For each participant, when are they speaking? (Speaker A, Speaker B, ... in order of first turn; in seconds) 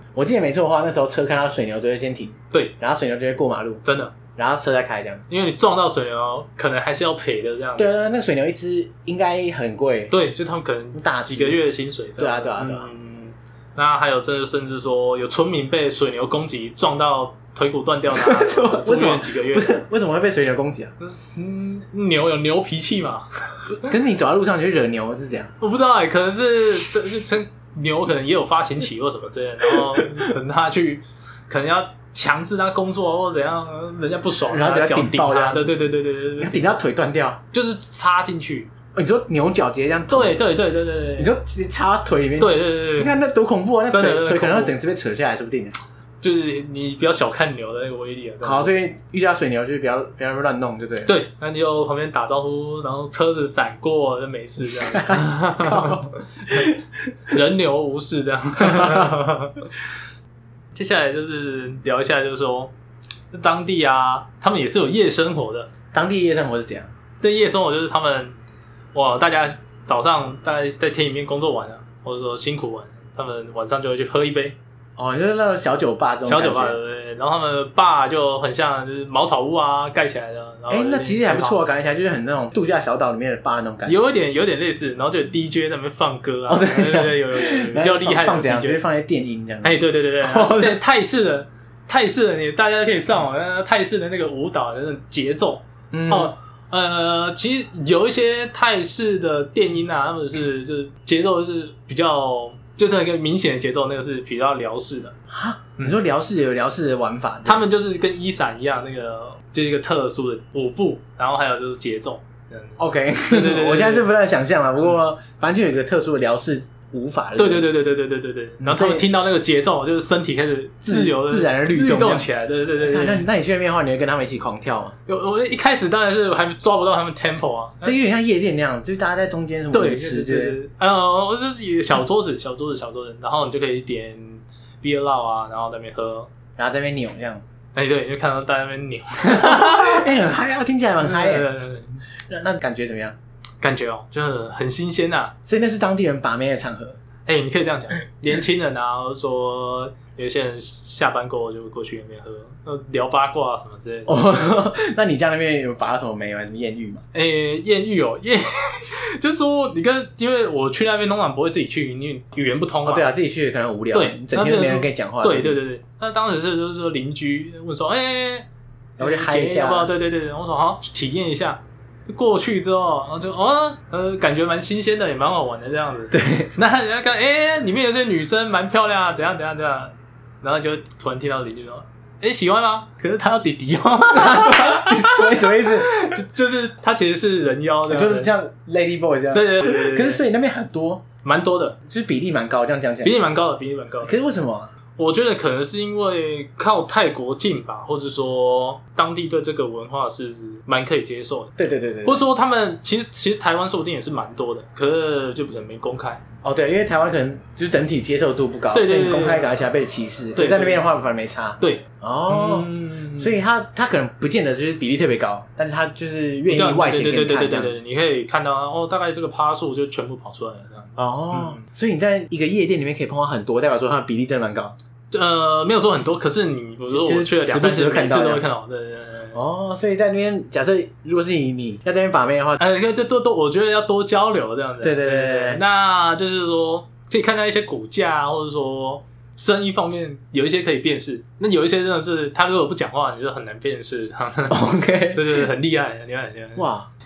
Speaker A: 0.1-5.2, 7.8-10.1, 10.9-11.6, 12.2-12.9, 18.1-20.9, 23.8-25.5, 34.5-35.7, 36.4-37.4, 38.9-40.4, 41.2-45.7, 48.4-51.1, 54.9-56.8, 58.6-59.1, 65.9-66.9, 75.0-76.8, 80.7-84.0, 86.5-90.8, 95.9-96.3, 105.3-107.6, 112.8-117.7, 118.6-119.1, 120.8-124.9, 127.8-130.6, 136.6-137.4, 139.2-141.5, 142.3-143.2, 145.4-147.0, 154.1-157.0, 162.8-165.6, 169.0-169.9, 176.1-176.5, 184.1-186.1, 187.9-191.1, 191.8-193.2, 194.0-194.7, 201.6-202.2, 206.4-217.7, 221.0-224.7, 226.9-228.4, 229.3-232.6, 234.8-235.6, 244.5-245.4, 246.6-246.9
Speaker B: 3.8-4.1, 5.3-7.9, 10.1-19.8, 21.0-23.9, 25.6-36.8, 37.5-38.7, 40.1-41.3, 42.4-43.1, 43.9-44.8, 46.2-48.7, 51.0-56.7, 57.3-59.7, 60.7-62.7, 63.3-65.7, 67.2-68.3, 68.9-74.6, 76.2-81.6, 83.8-88.8, 89.6-105.1, 107.4-114.1, 117.3-123.2, 125.1-128.0, 129.7-136.3, 137.7-140.1, 141.0-142.0, 143.6-145.3, 147.2-154.5, 157.1-163.1, 163.9-168.5, 169.0-188.3, 189.3-190.2, 191.2-191.8, 193.0-194.1, 194.9-206.2, 208.7-209.6, 210.3-210.8, 211.6-213.3, 216.5-221.6, 225.1-229.4, 232.6-246.7